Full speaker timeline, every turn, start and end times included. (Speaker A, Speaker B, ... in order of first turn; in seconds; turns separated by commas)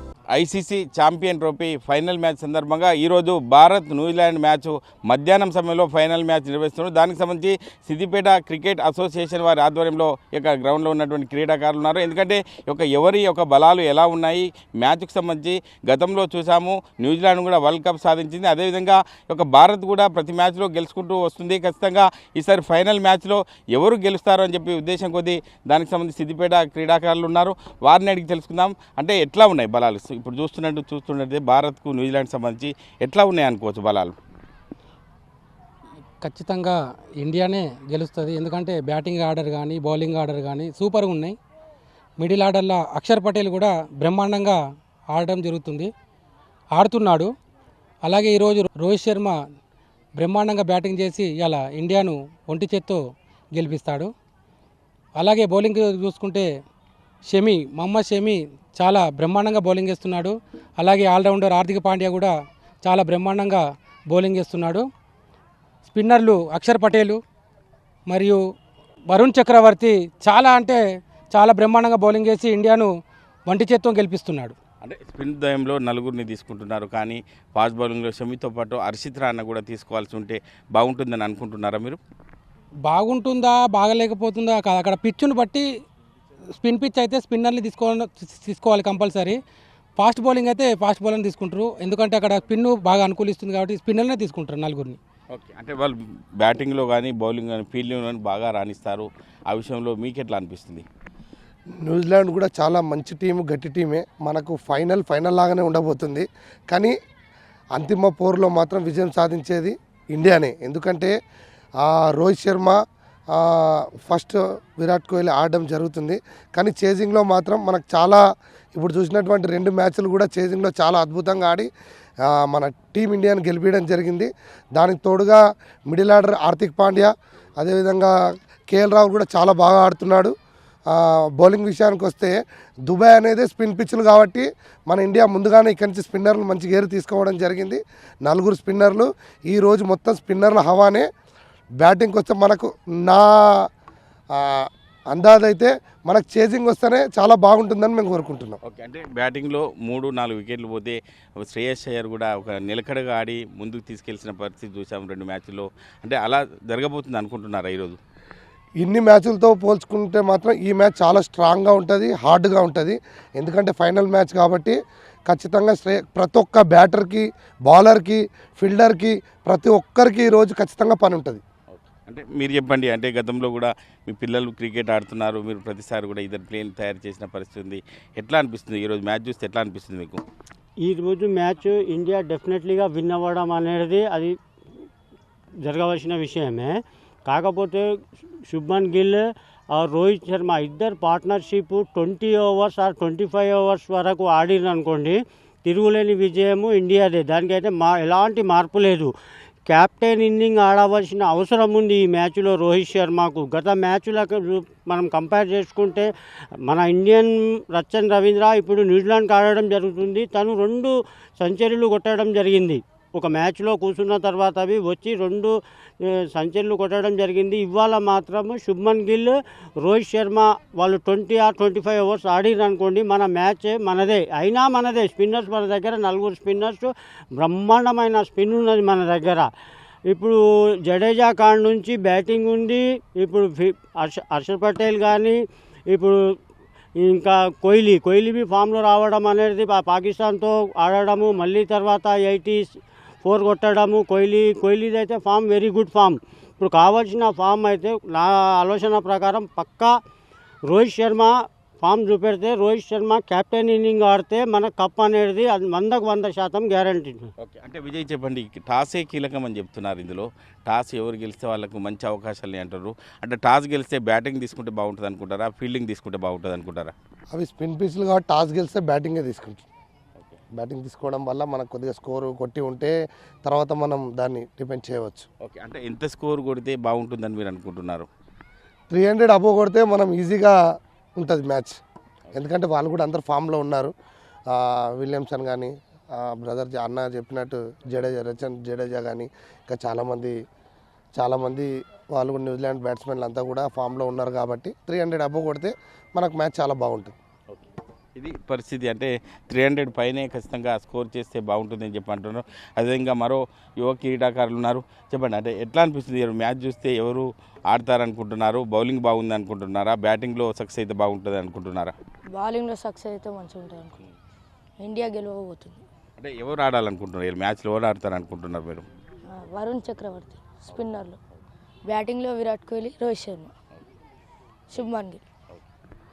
Speaker A: 0.3-34.1, Speaker B: 36.2-41.4, Speaker B: 42.2-44.6, Speaker B: 45.1-45.9, Speaker B: 46.8-47.3, Speaker B: 48.0-49.4, Speaker B: 50.2-53.0, Speaker B: 53.5-54.1, Speaker B: 55.2-56.5, Speaker B: 57.3-62.3, Speaker B: 62.8-64.9, Speaker B: 65.9-67.2, Speaker B: 68.1-68.4, Speaker B: 69.1-72.9, Speaker B: 73.5-74.5, Speaker A: 74.8-82.0, Speaker B: 82.9-85.7, Speaker B: 86.6-89.4, Speaker B: 90.0-95.0, Speaker A: 95.3-100.8, Speaker C: 101.8-106.9, Speaker C: 107.8-111.1, Speaker C: 111.8-112.8, Speaker C: 113.3-118.2, Speaker C: 118.7-121.7, Speaker C: 122.2-128.1, Speaker C: 128.7-130.3, Speaker C: 130.9-132.3, Speaker C: 132.9-141.1, Speaker C: 141.8-143.7, Speaker C: 144.4-148.6, Speaker A: 148.7-158.0, Speaker C: 158.8-164.8, Speaker C: 165.3-171.4, Speaker A: 171.7-180.2, Speaker D: 180.8-184.3, Speaker D: 185.6-187.9, Speaker D: 188.5-199.1, Speaker D: 199.7-229.5, Speaker D: 230.1-236.2, Speaker D: 236.9-249.9, Speaker D: 250.7-257.2, Speaker A: 257.4-266.9, Speaker C: 267.3-269.6, Speaker C: 270.6-272.9, Speaker C: 273.4-275.3, Speaker A: 275.4-278.1, Speaker C: 278.9-280.5, Speaker C: 281.2-281.8, Speaker C: 282.3-283.9, Speaker C: 284.5-290.3, Speaker C: 291.2-297.1, Speaker A: 297.5-311.9, Speaker E: 312.3-314.0, Speaker E: 314.8-315.8, Speaker A: 316.2-318.9, Speaker E: 319.3-321.2, Speaker E: 321.9-323.5, Speaker E: 324.7-325.2